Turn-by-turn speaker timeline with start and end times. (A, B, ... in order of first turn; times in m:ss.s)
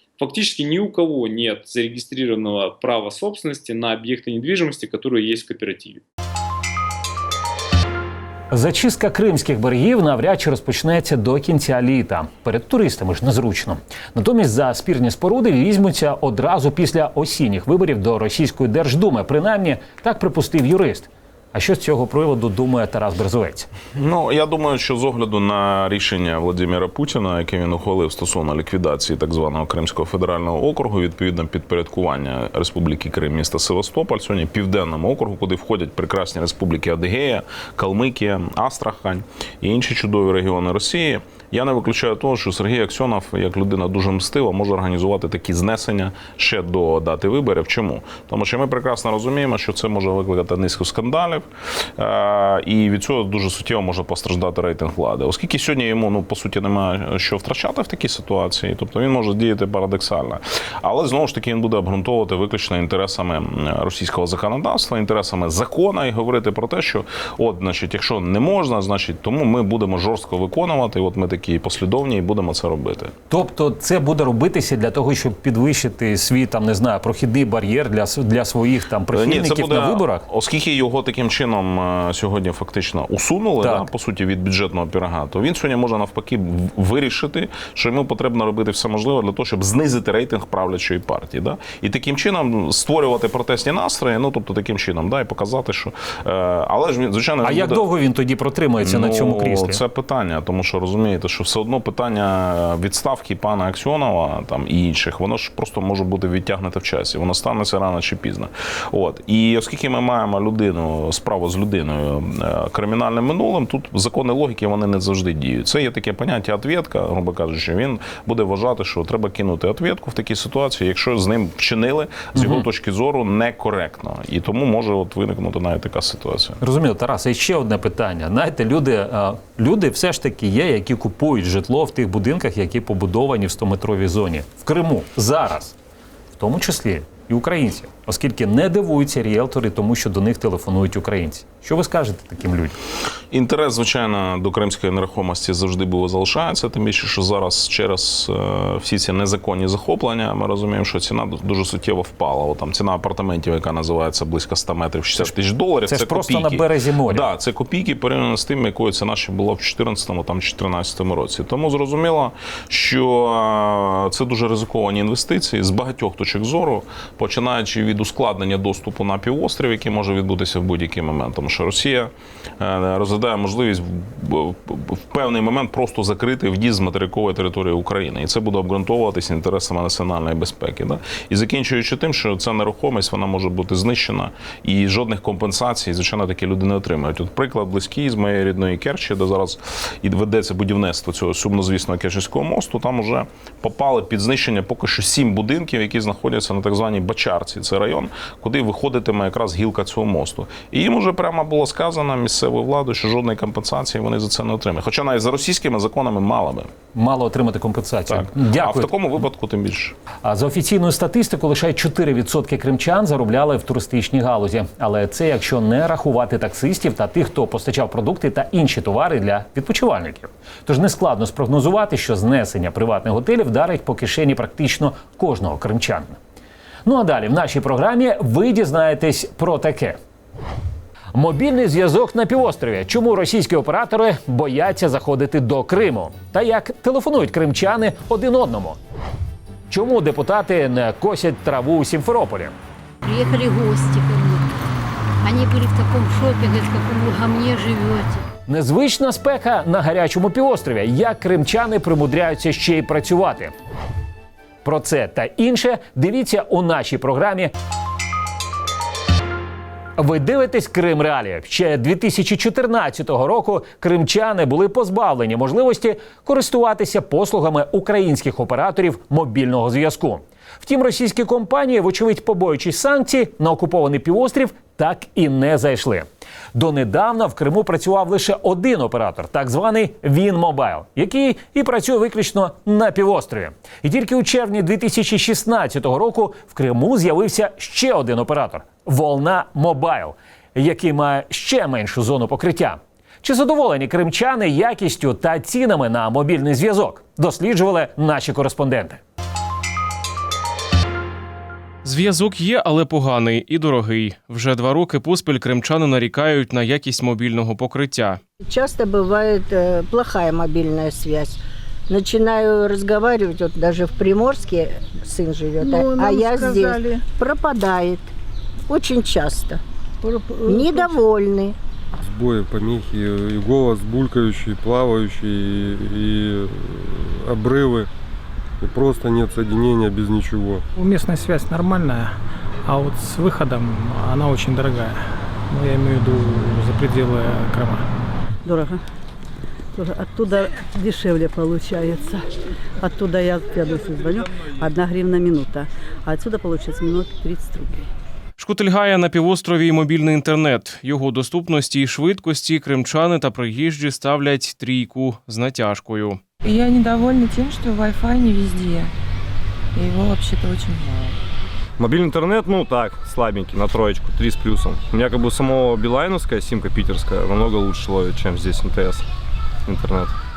0:00.2-0:06.0 A
0:08.5-0:23.7 B
0:24.0-1:13.1 C
1:13.3-1:20.2 B
1:19.1-1:37.8 C
1:23.6-1:23.9 B
1:37.4-1:39.8 B
1:38.8-2:06.6 C
2:02.4-2:02.7 B
2:06.6-2:15.8 B
2:16.4-2:22.8 B
2:23.3-3:26.7 C
2:35.9-2:37.3 B
3:27.0-3:28.9 B
3:28.1-3:30.0 C
3:30.2-3:46.2 B
3:46.8-3:50.0 B
3:51.1-3:58.8 B
3:59.7-4:02.6 B
4:03.0-4:04.5 D
4:05.2-4:08.2 D
4:08.5-4:13.6 B
4:14.6-4:17.5 B
4:20.0-4:59.0 B
5:01.8-5:08.2 E
5:08.4-5:11.4 F
5:11.9-5:18.1 F
5:15.6-5:17.0 G
5:18.7-5:19.6 F
5:20.0-5:21.0 G
5:20.4-5:21.6 F
5:22.0-5:27.9 H
5:28.6-5:30.6 H
5:30.8-5:32.2 I
5:32.7-5:37.8 I
5:38.4-5:38.8 G
5:39.8-5:42.2 G
5:42.8-5:47.9 G
5:48.4-5:56.2 E
5:56.4-5:58.9 J
5:59.8-6:01.2 J
6:01.8-6:09.1 K
6:09.7-6:10.2 K